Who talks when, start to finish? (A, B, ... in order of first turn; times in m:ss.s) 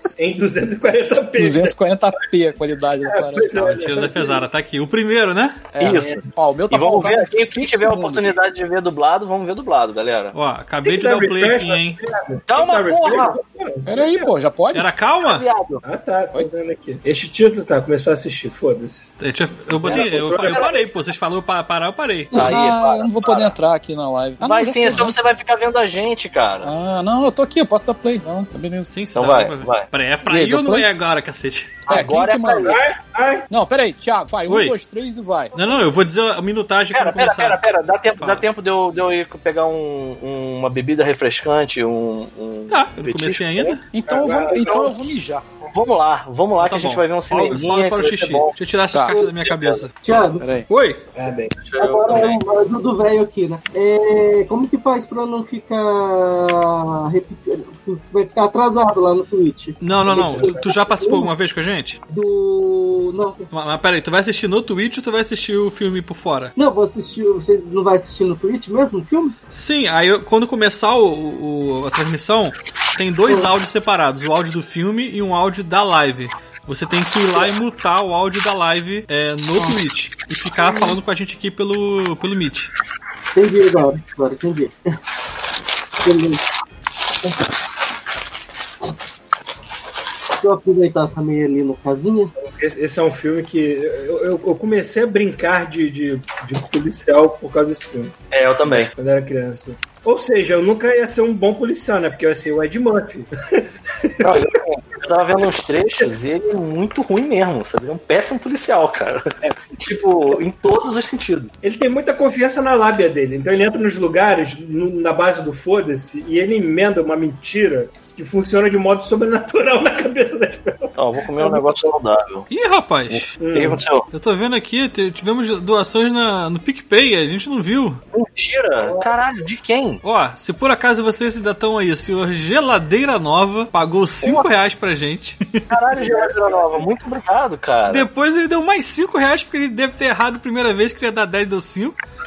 0:00.2-0:01.7 A
0:01.4-0:03.8 B
0:03.1-0:04.4 A
0:03.6-0:05.7 C
0:05.7-0:08.4 B
0:05.8-0:10.3 D
0:05.9-0:06.2 A
0:10.3-0:12.0 C
0:10.8-0:14.3 A
0:12.5-0:13.4 D
0:13.8-0:14.9 B
0:14.7-0:15.4 C
0:15.2-0:15.8 D
0:15.8-0:19.1 A
0:19.2-0:22.3 C
0:19.8-0:20.8 A
0:19.8-0:20.8 D
0:22.3-0:23.5 D
0:22.4-0:25.2 B
0:24.4-0:26.7 D
0:26.6-0:28.9 B
0:28.9-0:31.9 C
0:29.1-0:29.9 D
0:30.2-0:30.9 B
0:31.9-0:32.8 B
0:31.9-0:32.8 D
0:32.7-0:33.5 A
0:33.5-0:35.5 B
0:34.5-0:34.7 C
0:35.5-0:37.6 C
0:36.9-0:43.8 D
0:38.2-0:38.4 C
0:42.7-0:43.8 C
0:43.9-0:45.4 B
0:44.0-0:45.1 A
0:45.6-0:48.6 D
0:46.6-0:49.9 C
0:48.9-0:49.2 B
0:49.1-0:49.8 D
0:50.0-0:50.5 E
0:50.4-0:50.7 B
0:50.7-0:51.0 C
0:51.1-0:51.5 A
0:51.6-0:52.4 D
0:51.8-1:01.3 E
0:59.8-1:02.0 C
1:00.1-1:00.6 A
1:02.1-1:03.4 E
1:03.5-1:06.5 C
1:06.6-1:09.3 E
1:09.5-1:22.7 C
1:20.6-1:20.9 E
1:23.3-1:24.8 E
1:26.0-1:26.4 E
1:30.4-1:32.3 E
1:32.4-1:44.4 A
1:38.3-1:38.9 D
1:44.2-1:51.5 D
1:51.6-2:01.8 A
2:01.0-2:02.5 D
2:02.5-2:03.3 C
2:03.1-2:04.1 D
2:03.4-2:03.8 A
2:04.1-2:08.0 C
2:08.1-2:10.0 D
2:08.8-2:09.1 A
2:10.0-2:15.6 C
2:14.2-2:14.5 D
2:15.7-2:18.1 D
2:15.9-2:16.8 A
2:17.9-2:22.0 C